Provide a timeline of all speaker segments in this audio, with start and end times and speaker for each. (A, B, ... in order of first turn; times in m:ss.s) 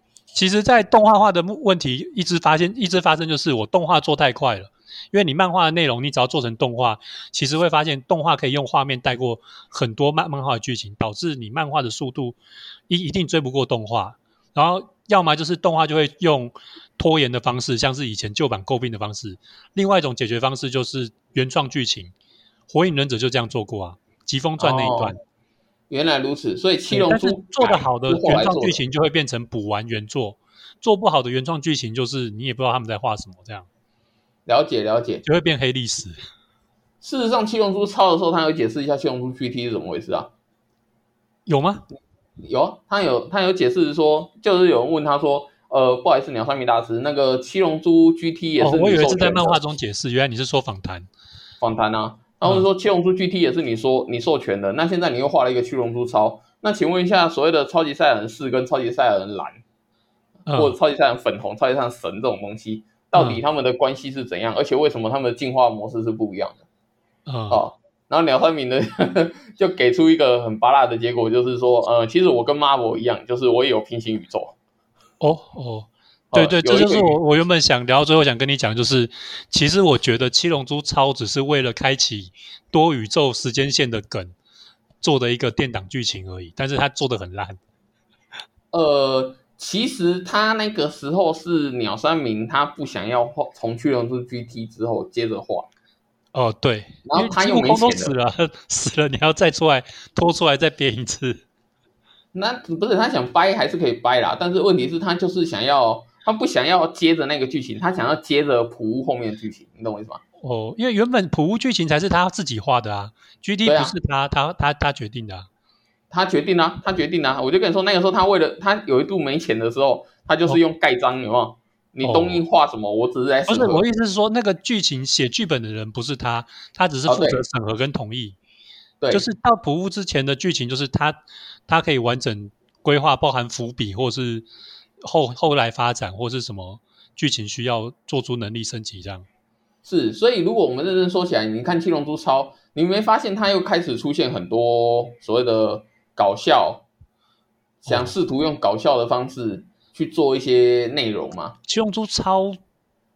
0:00.3-0:12.4 A
0:12.9-0:22.1 A
0:22.7-0:25.2 A
0:24.6-0:25.2 B
0:25.9-0:28.8 B
0:26.9-0:33.7 A
0:34.4-0:35.2 B
0:35.2-0:36.2 A
0:37.0-0:40.3 B
0:41.4-0:41.8 A
0:42.4-0:49.6 B
0:48.6-0:51.1 A
0:51.6-0:59.6 B
1:00.4-1:00.8 A
1:00.5-1:06.6 B
1:03.1-1:03.4 A
1:07.3-1:07.6 A
1:07.5-1:14.5 B
1:15.2-1:24.3 A
1:16.3-1:17.2 B
1:25.0-1:27.6 A
1:28.7-1:35.7 B
1:36.3-1:41.4 A
1:37.0-1:38.1 B
1:42.3-1:50.2 B
1:50.4-1:55.5 A
1:53.6-1:53.9 B
1:56.1-2:03.8 B
2:02.0-2:02.4 A
2:03.5-2:08.4 A
2:07.1-2:07.4 B
2:09.0-2:09.2 B
2:09.1-2:14.5 A
2:15.0-2:19.2 A
2:19.8-2:26.8 B
2:27.8-2:31.6 B
2:27.9-2:28.1 A
2:31.7-2:32.6 A